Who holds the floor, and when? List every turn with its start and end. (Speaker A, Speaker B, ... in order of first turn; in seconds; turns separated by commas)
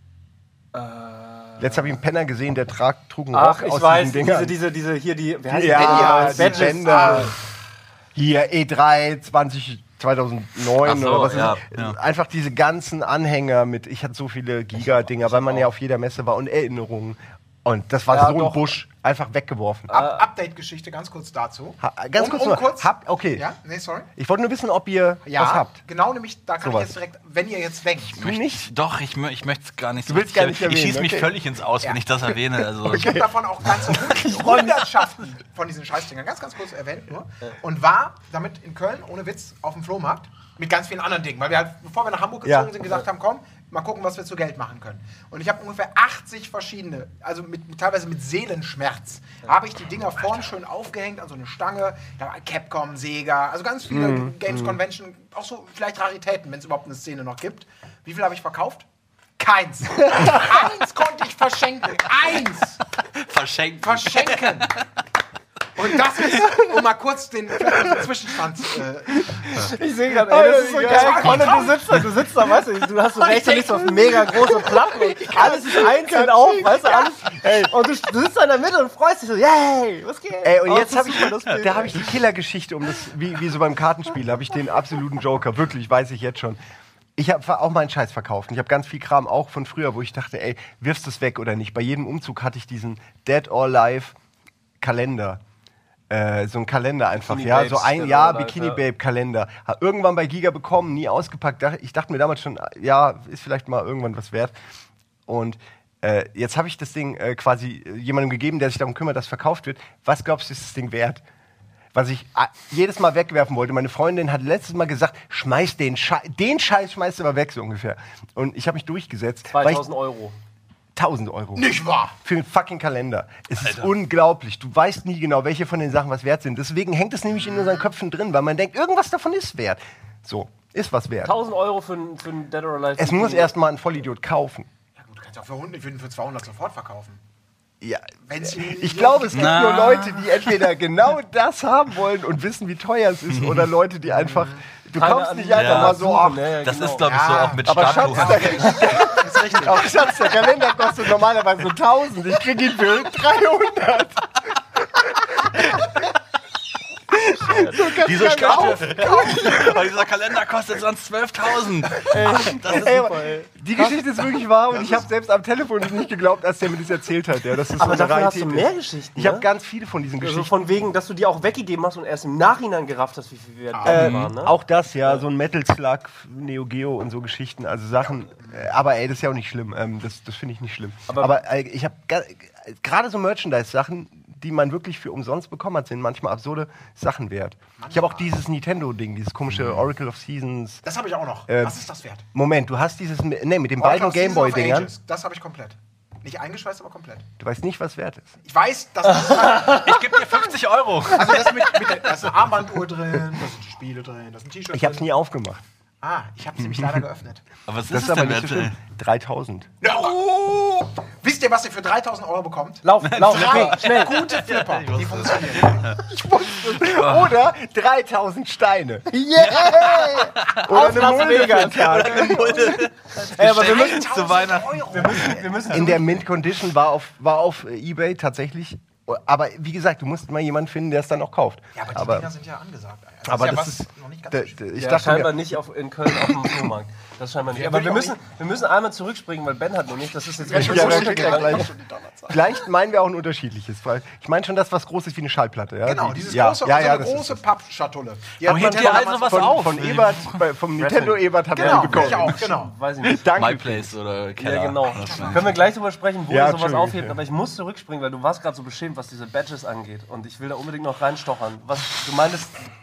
Speaker A: 0.7-2.0, Speaker B: 1.6-4.5, Speaker A: 3.3-7.3, Speaker B: 5.5-7.3, Speaker C: 5.6-7.3, Speaker B: 8.1-20.0, Speaker D: 10.8-12.0, Speaker A: 14.7-15.7, Speaker A: 18.1-18.7, Speaker A: 19.9-20.2, Speaker C: 19.9-24.1, Speaker B: 21.8-23.5, Speaker B: 24.1-25.8, Speaker C: 25.2-28.2, Speaker B: 26.6-26.9, Speaker D: 28.1-33.2, Speaker B: 28.2-28.7, Speaker B: 30.1-31.3, Speaker B: 32.8-33.2, Speaker C: 32.8-58.8, Speaker B: 34.3-34.6, Speaker B: 42.4-42.7, Speaker B: 53.9-54.8, Speaker C: 59.4-62.8, Speaker B: 60.1-60.6, Speaker D: 63.0-64.8, Speaker C: 63.8-64.7, Speaker C: 65.8-69.7, Speaker B: 67.7-68.0, Speaker B: 69.1-71.8, Speaker A: 69.5-82.1, Speaker C: 70.8-72.0, Speaker B: 73.2-77.7, Speaker B: 80.4-86.6, Speaker B: 87.2-94.2, Speaker B: 94.8-95.4, Speaker B: 96.1-104.5, Speaker A: 97.2-98.8, Speaker B: 105.3-111.2, Speaker B: 111.9-119.8, Speaker A: 119.5-120.3, Speaker B: 120.9-131.3, Speaker C: 121.5-122.1, Speaker D: 123.6-123.9, Speaker A: 131.2-133.5, Speaker B: 133.0-134.7, Speaker C: 134.9-137.2, Speaker B: 137.8-146.5, Speaker C: 138.3-139.7, Speaker D: 139.3-140.5, Speaker D: 143.3-143.7, Speaker C: 144.1-144.6, Speaker A: 144.9-147.1, Speaker D: 145.5-146.1, Speaker D: 146.6-148.8, Speaker C: 147.0-150.3, Speaker B: 147.7-155.8, Speaker B: 157.1-159.7, Speaker D: 158.0-163.0, Speaker C: 158.1-159.8, Speaker A: 162.0-163.9, Speaker B: 162.7-170.6, Speaker A: 167.8-169.5, Speaker A: 170.2-175.2, Speaker C: 173.7-174.0, Speaker B: 173.8-190.8, Speaker D: 173.9-174.3, Speaker C: 178.4-178.7, Speaker A: 181.1-181.3, Speaker C: 187.8-188.3, Speaker D: 189.5-189.8, Speaker C: 190.8-192.2, Speaker B: 191.5-191.8, Speaker B: 192.3-194.9, Speaker C: 193.8-197.2, Speaker B: 197.4-198.3, Speaker C: 198.4-200.5, Speaker D: 199.7-201.9, Speaker C: 201.0-205.1, Speaker B: 204.7-205.6, Speaker C: 206.0-207.4, Speaker D: 207.7-208.7, Speaker B: 207.9-209.7, Speaker C: 209.8-216.1, Speaker A: 212.8-214.2, Speaker D: 213.0-217.3, Speaker B: 216.1-222.9, Speaker A: 219.3-224.1, Speaker D: 219.4-225.4, Speaker C: 223.3-225.7, Speaker A: 224.9-226.2, Speaker B: 225.7-232.3, Speaker C: 231.8-234.6, Speaker B: 233.2-236.7, Speaker A: 234.8-241.7, Speaker C: 237.5-238.2, Speaker C: 240.4-242.5, Speaker B: 240.5-241.7, Speaker B: 242.3-247.4, Speaker C: 245.8-249.5, Speaker B: 248.4-252.4, Speaker D: 248.4-250.4, Speaker A: 250.8-253.3, Speaker C: 251.5-252.7, Speaker B: 253.0-253.9, Speaker D: 253.2-255.6, Speaker A: 254.4-262.7, Speaker C: 254.9-255.6, Speaker B: 256.3-257.2